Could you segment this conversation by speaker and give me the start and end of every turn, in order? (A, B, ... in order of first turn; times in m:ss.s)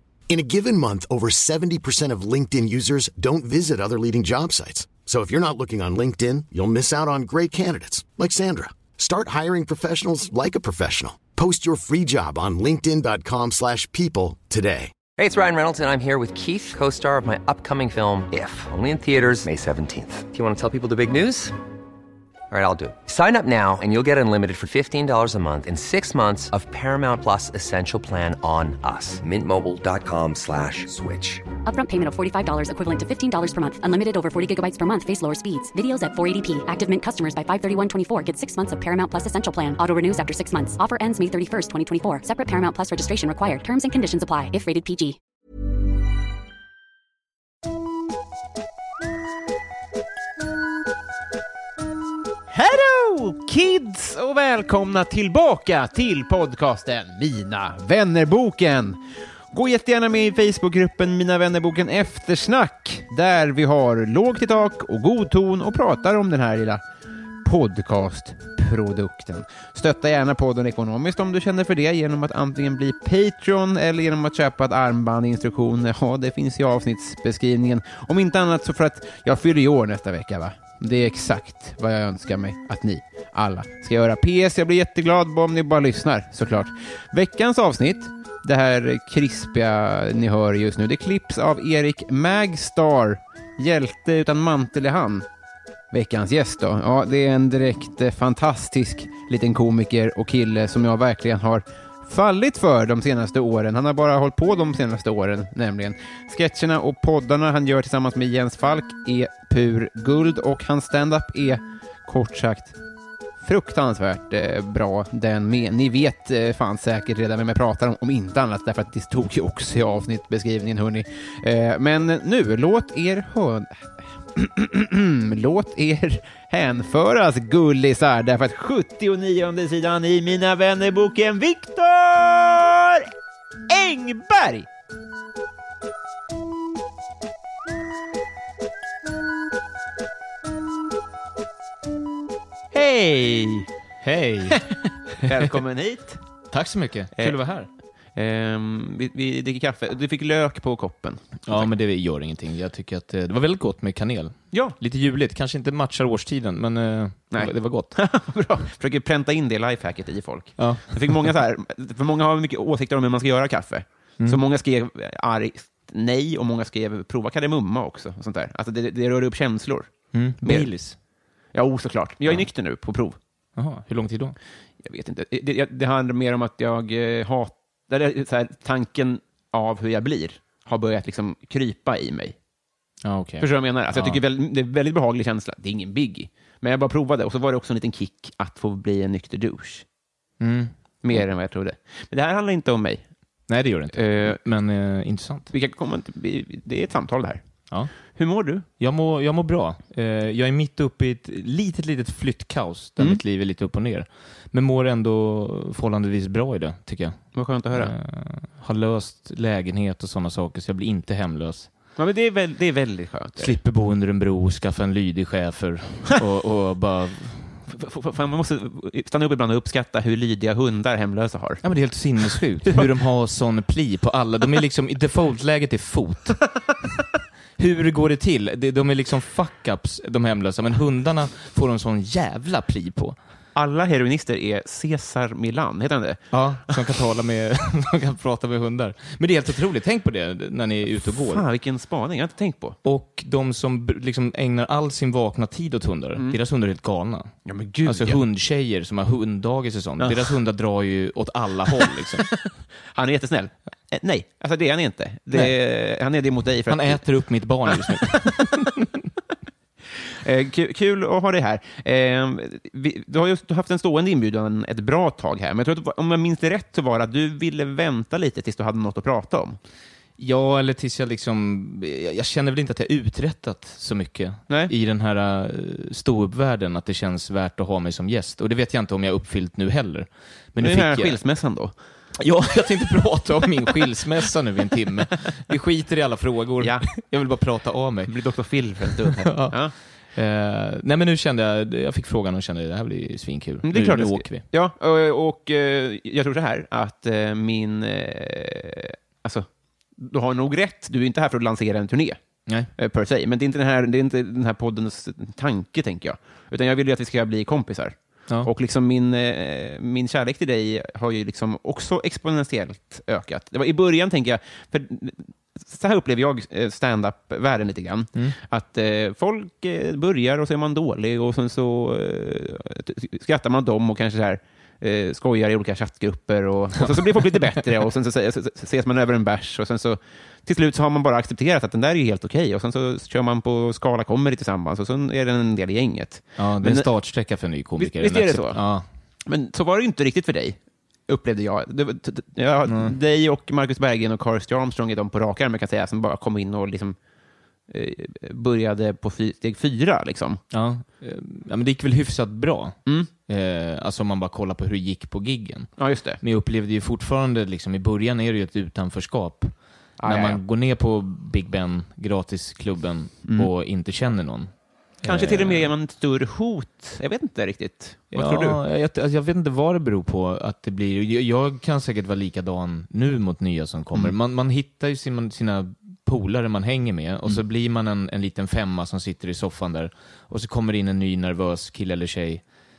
0:00.3-0:14.9 A
0:15.2-0:21.6 B
0:22.5-0:31.4 B
0:31.6-0:45.2 C
0:52.5-0:59.0 D
0:59.5-1:06.8 D
1:07.4-1:35.2 D
1:35.9-1:52.7 D
1:53.4-2:13.1 D
2:13.7-2:14.7 D
2:22.7-2:23.7 D
2:24.0-2:24.7 E
2:24.7-2:26.2 D
2:25.3-2:25.6 E
2:26.5-2:27.7 E
2:28.1-2:31.7 D
2:31.4-2:38.0 E
2:37.3-2:50.7 D
2:40.6-2:41.2 E
2:50.1-2:51.0 E
2:51.5-2:53.2 D
2:53.6-2:54.4 E
2:54.8-3:02.4 D
3:03.0-3:04.2 E
3:03.4-3:09.8 D
3:10.4-3:11.2 E
3:11.0-3:13.0 D
3:13.5-3:15.5 E
3:13.9-3:14.3 D
3:15.5-3:17.4 D
3:18.0-3:18.6 D
3:18.8-3:31.7 E
3:27.3-3:27.9 D
3:32.0-3:33.6 D
3:33.4-3:37.7 E
3:37.7-3:41.6 D
3:41.6-3:46.4 E
3:42.2-3:42.9 D
3:47.6-3:53.2 E
3:53.5-3:56.8 D
3:56.3-4:01.4 E
4:01.0-4:02.8 D
4:02.8-4:12.3 E
4:07.4-4:08.2 D
4:10.0-4:10.3 D
4:12.9-4:17.0 D
4:16.7-4:19.1 E
4:20.2-4:29.6 D
4:30.2-4:41.2 E
4:40.6-4:41.7 D
4:42.2-4:48.1 E
4:46.6-4:46.9 D
4:48.0-4:49.7 D
4:48.8-4:49.6 E
4:50.1-4:54.4 E
4:53.6-4:59.5 D
5:00.0-5:02.2 D
5:02.8-5:36.9 D
5:26.8-5:27.4 E
5:36.4-5:38.9 E
5:37.8-5:38.6 D
5:39.2-5:47.0 D
5:42.6-5:42.9 E
5:47.7-5:50.4 D
5:50.5-6:05.7 E
5:55.8-5:56.2 D
6:00.0-6:00.4 D
6:05.0-6:08.6 D
6:08.1-6:22.4 E